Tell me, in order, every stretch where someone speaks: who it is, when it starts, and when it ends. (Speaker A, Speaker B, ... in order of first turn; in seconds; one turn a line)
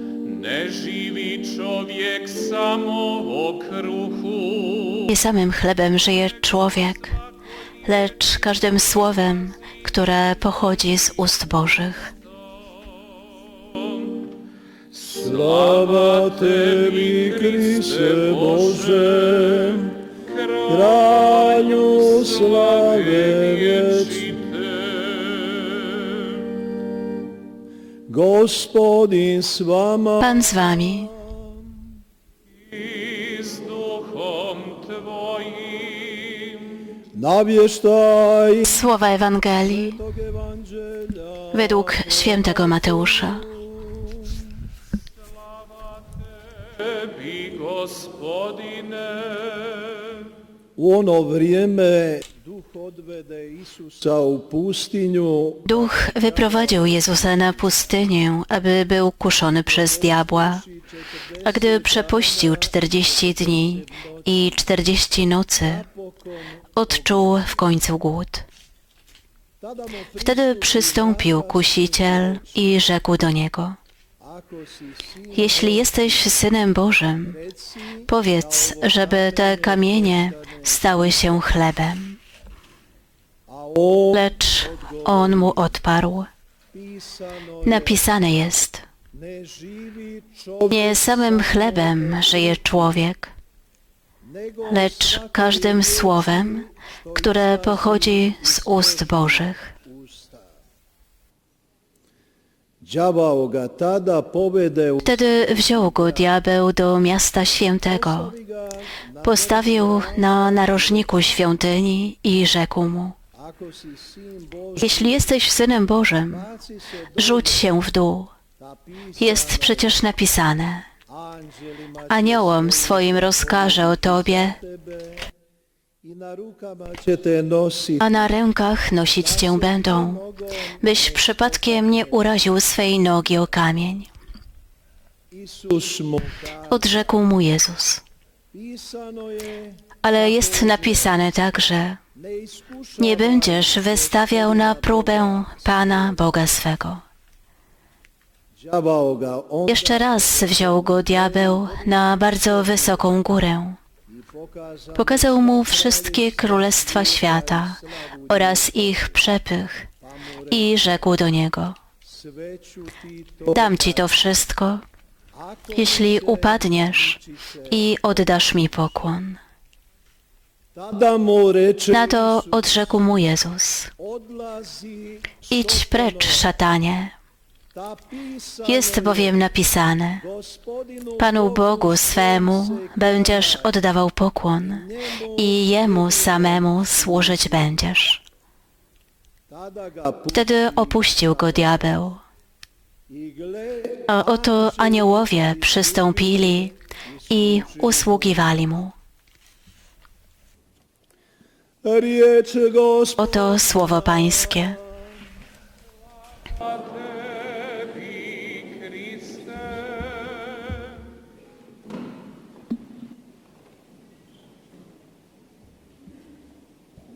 Speaker A: 0.2-4.9
Speaker B: 5.0-7.2
Speaker B: 7.8-12.1
Speaker C: 14.9-20.1
Speaker A: 20.3-20.7
Speaker C: 20.7-24.4
Speaker A: 24.4-26.4
Speaker C: 28.1-30.1
Speaker B: 30.2-31.1
Speaker A: 32.8-36.6
Speaker C: 37.2-38.5
Speaker B: 38.6-40.0
Speaker B: 41.5-43.5
Speaker A: 46.8-50.2
Speaker C: 50.8-55.6
Speaker B: 55.6-60.6
Speaker B: 61.4-65.9
Speaker B: 66.8-68.5
Speaker B: 70.1-73.8
Speaker B: 75.3-77.4
Speaker B: 78.1-82.2
Speaker B: 84.1-86.3
Speaker B: 87.6-88.8
Speaker B: 90.7-93.3
Speaker B: 94.7-99.7
Speaker C: 102.9-104.9
Speaker B: 105.0-108.3
Speaker B: 109.2-113.2
Speaker B: 114.8-116.5
Speaker B: 117.2-118.3
Speaker B: 119.2-120.9
Speaker B: 122.1-124.6
Speaker C: 126.5-127.8
Speaker B: 128.0-130.2
Speaker B: 130.8-134.1
Speaker C: 135.6-136.2
Speaker B: 136.6-138.0
Speaker B: 140.0-142.0
Speaker B: 143.0-147.0
Speaker C: 148.7-149.6
Speaker B: 149.7-153.8
Speaker B: 154.9-159.9
Speaker B: 160.5-161.8
Speaker B: 163.5-164.8
Speaker B: 165.7-169.4
Speaker C: 170.8-171.8
Speaker B: 171.9-173.9
Speaker C: 174.4-174.9
Speaker B: 175.5-177.1
Speaker B: 178.6-180.3
Speaker B: 181.2-188.2
Speaker B: 190.3-192.2
Speaker B: 194.1-196.8
Speaker B: 197.3-198.9
Speaker C: 201.8-203.1
Speaker B: 203.2-204.8
Speaker A: 207.6-207.9
Speaker A: 208.5-209.1